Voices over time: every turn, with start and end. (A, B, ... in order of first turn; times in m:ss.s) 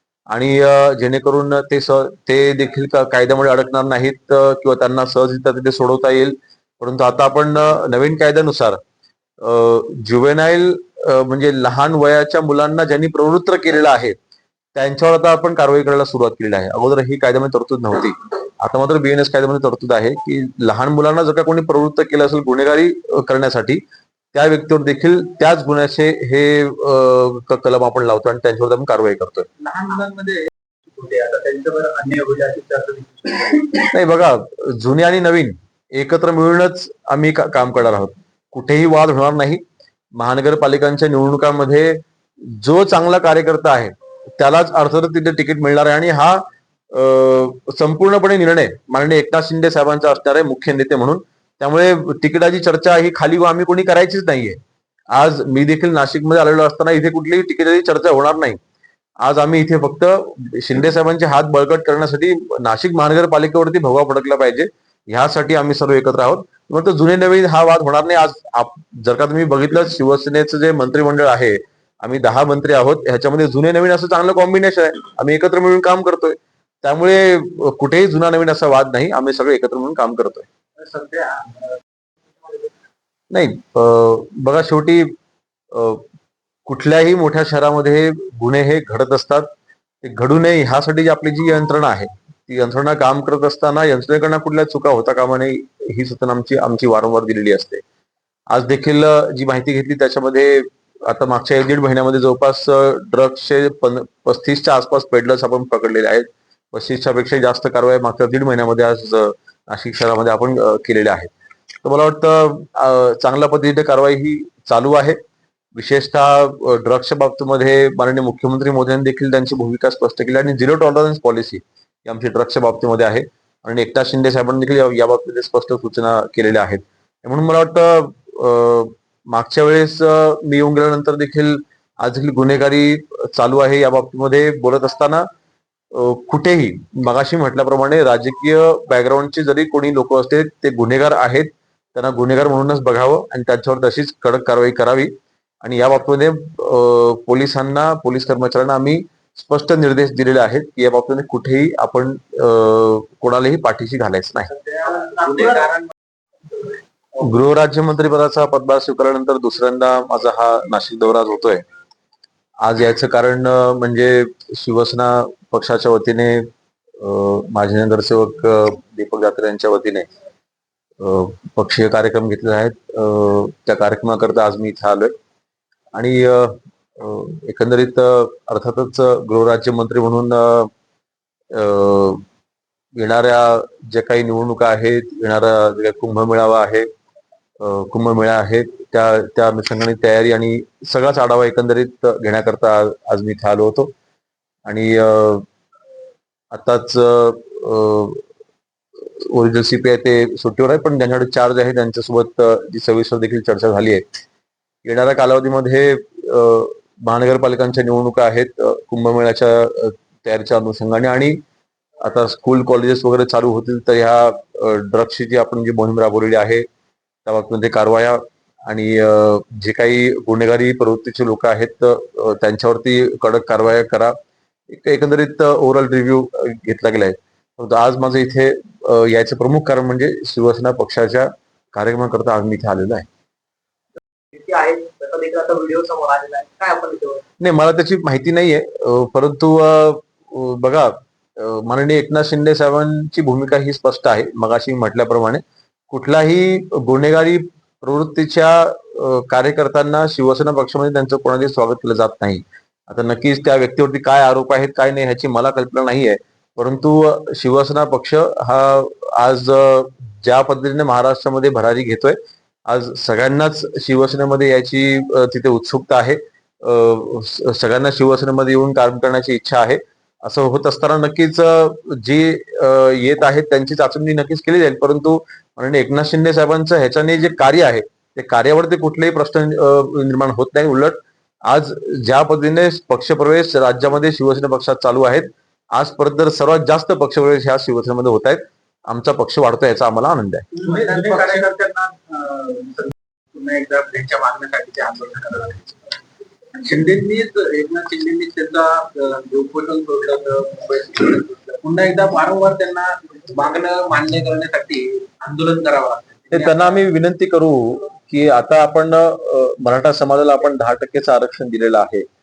0:00.3-0:08.8 A
0:09.4-0:14.2 A
0:14.8-0:23.8 A
0:24.3-0:29.5 A
0:29.6-0:30.5 B
0:31.0-0:33.7 C
0:33.9-0:39.6 A
0:40.2-0:54.6 A
0:55.1-0:58.6 A
0:59.2-1:20.5 A
1:20.8-1:21.7 B
1:23.3-1:25.2 A
1:25.7-1:26.0 A
1:26.7-1:29.5 A
1:30.0-1:37.8 A
1:38.5-1:51.3 A
1:51.8-1:55.2 A
1:55.8-2:15.3 A
2:15.9-2:34.5 A
2:34.5-2:35.9 B
2:35.0-2:35.6 C
2:37.2-2:41.6 A
2:42.6-2:46.5 A
2:47.0-2:50.1 A
2:51.0-2:55.1 A
2:55.9-3:00.7 A
3:01.5-3:02.2 A
3:03.0-3:06.9 A
3:07.6-3:13.9 A
3:14.7-3:15.5 A
3:16.5-3:18.2 A
3:19.1-3:24.0 A
3:24.8-3:31.4 A
3:32.0-3:36.7 A
3:37.3-3:44.2 A
3:44.7-3:53.1 A
3:54.3-3:57.2 C
3:57.4-4:22.2 A
4:22.7-4:50.5 A
4:50.6-4:52.7 C
4:50.6-4:51.5 B
4:52.7-4:56.0 B
4:56.6-5:06.8 B
5:06.3-5:12.1 A